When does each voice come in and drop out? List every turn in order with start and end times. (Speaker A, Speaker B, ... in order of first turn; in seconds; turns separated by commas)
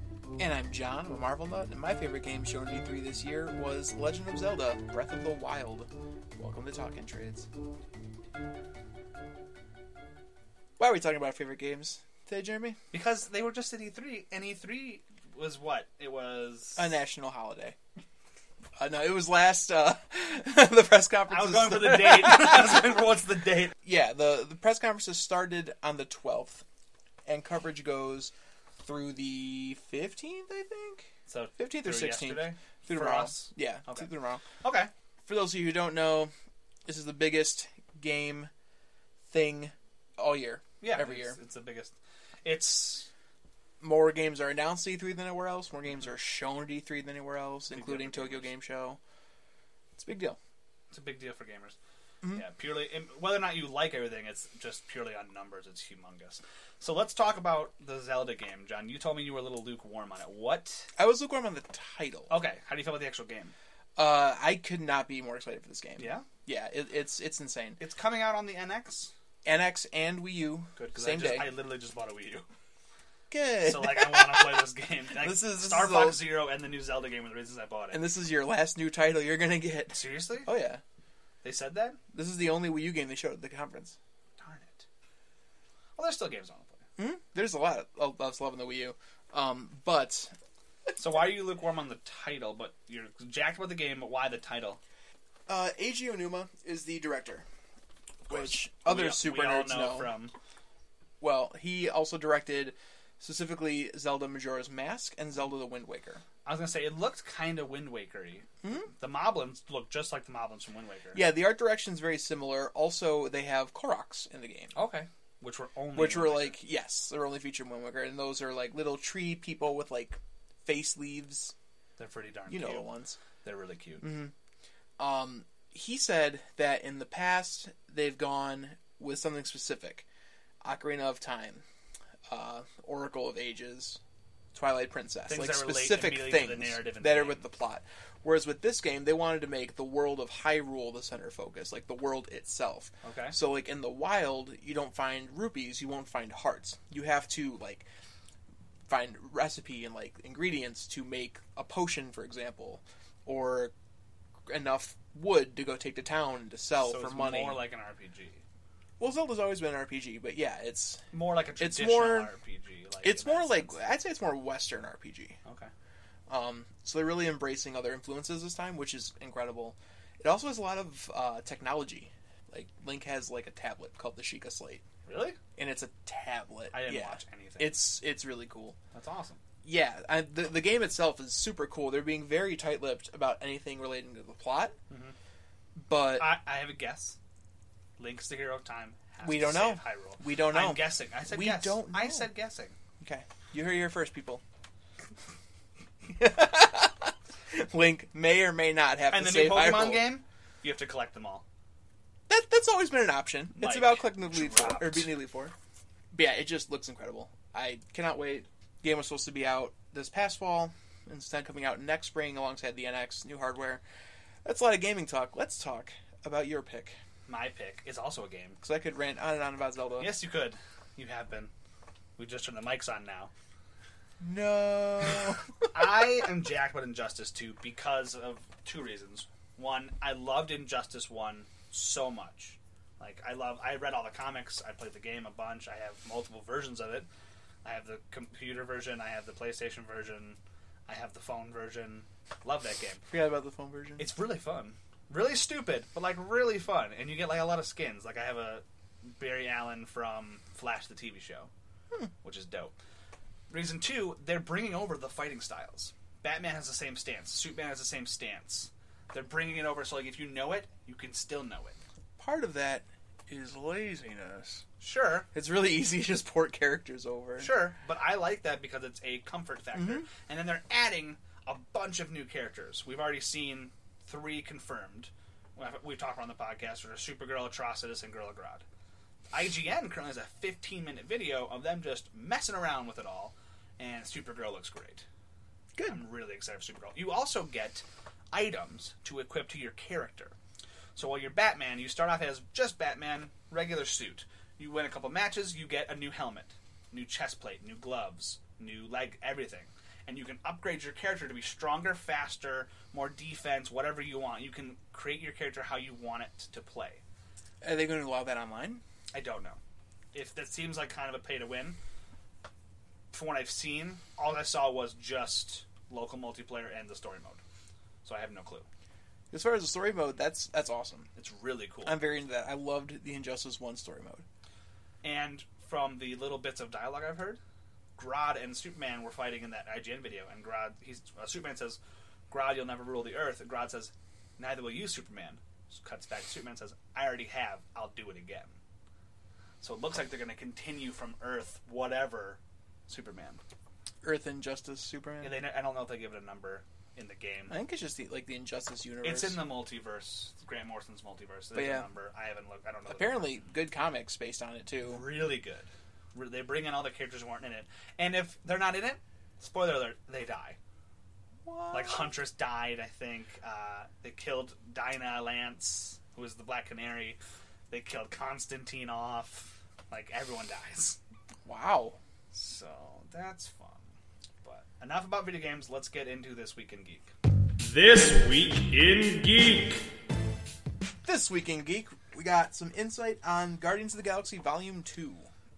Speaker A: 0.4-7.5, Speaker A: 10.8-12.8, Speaker B: 12.9-16.9, Speaker A: 16.8-17.8, Speaker A: 18.8-23.0, Speaker B: 21.3-23.8, Speaker A: 23.8-26.6, Speaker A: 27.3-34.4, Speaker B: 31.3-34.1, Speaker B: 34.6-34.9, Speaker A: 35.2-36.3, Speaker A: 36.9-38.5, Speaker A: 39.3-41.4, Speaker B: 40.8-43.1, Speaker A: 43.8-49.0, Speaker B: 47.7-48.5, Speaker A: 50.0-50.4, Speaker B: 50.9-51.8, Speaker B: 52.3-60.9, Speaker A: 61.0-62.3, Speaker B: 62.3-63.5, Speaker A: 64.0-67.8, Speaker B: 66.0-66.3, Speaker B: 67.8-69.1, Speaker A: 69.5-71.5, Speaker B: 70.8-72.5, Speaker A: 73.3-74.7, Speaker B: 73.7-78.0, Speaker A: 75.2-76.3, Speaker A: 77.9-80.8, Speaker B: 79.9-80.5, Speaker B: 81.4-82.0, Speaker A: 82.1-84.0, Speaker B: 84.4-84.9, Speaker B: 86.0-86.8, Speaker A: 87.0-90.3, Speaker B: 91.0-94.8, Speaker A: 95.5-97.5, Speaker A: 98.3-100.1, Speaker B: 98.3-100.3, Speaker A: 101.2-106.2, Speaker B: 106.5-108.5, Speaker A: 108.6-108.9, Speaker B: 109.0-111.3, Speaker A: 111.1-114.7, Speaker B: 114.7-116.6, Speaker A: 116.0-121.5, Speaker B: 122.0-122.9, Speaker A: 122.5-123.2, Speaker B: 123.4-124.1, Speaker A: 124.0-124.3, Speaker A: 125.0-130.1, Speaker A: 130.6-131.6, Speaker A: 132.3-134.0, Speaker A: 134.5-147.9, Speaker B: 135.3-137.4, Speaker B: 143.0-143.4, Speaker A: 148.9-153.7, Speaker A: 154.5-157.6, Speaker B: 156.8-158.4, Speaker A: 159.0-161.1, Speaker B: 161.1-163.8, Speaker A: 161.6-162.3, Speaker A: 163.0-165.4, Speaker B: 165.4-165.7, Speaker A: 166.3-174.8, Speaker B: 175.1-175.4, Speaker A: 175.6-178.8, Speaker B: 176.7-177.8, Speaker B: 178.9-179.4, Speaker A: 179.6-184.8, Speaker B: 184.9-185.2, Speaker A: 185.8-186.3, Speaker B: 186.2-187.2, Speaker B: 188.0-192.8, Speaker A: 189.2-192.3, Speaker A: 193.0-194.4, Speaker A: 196.1-200.1, Speaker B: 199.1-201.4, Speaker A: 202.3-205.5, Speaker B: 203.5-205.1, Speaker A: 206.1-213.8, Speaker A: 214.4-217.0, Speaker B: 217.3-218.6, Speaker A: 218.6-220.1, Speaker B: 220.0-221.5, Speaker B: 222.2-223.3, Speaker A: 224.2-225.4, Speaker B: 225.7-237.1, Speaker B: 237.6-243.1, Speaker A: 243.1-244.1, Speaker B: 244.0-251.5, Speaker B: 252.2-252.8, Speaker B: 253.5-261.8, Speaker A: 262.2-264.6, Speaker B: 264.8-265.3, Speaker A: 265.3-267.5, Speaker B: 267.4-278.6, Speaker A: 269.7-270.1, Speaker B: 279.3-285.1, Speaker A: 285.8-286.0, Speaker B: 285.9-290.4, Speaker B: 291.0-307.0, Speaker A: 307.6-308.8, Speaker B: 309.1-309.6, Speaker B: 310.1-311.8, Speaker B: 313.1-317.4, Speaker B: 318.0-318.7, Speaker A: 319.3-321.1, Speaker B: 321.1-322.0, Speaker A: 321.8-324.2, Speaker B: 325.0-327.4, Speaker B: 328.0-338.6, Speaker B: 339.6-343.4, Speaker A: 344.0-345.4, Speaker B: 345.2-347.6, Speaker A: 347.5-349.4, Speaker B: 349.0-353.4, Speaker A: 351.5-351.9, Speaker A: 352.9-355.0, Speaker B: 354.8-360.6, Speaker A: 361.5-362.1, Speaker B: 361.7-367.2, Speaker B: 367.7-371.0, Speaker A: 371.4-372.0, Speaker B: 372.3-373.9, Speaker B: 374.4-379.8, Speaker A: 381.1-385.3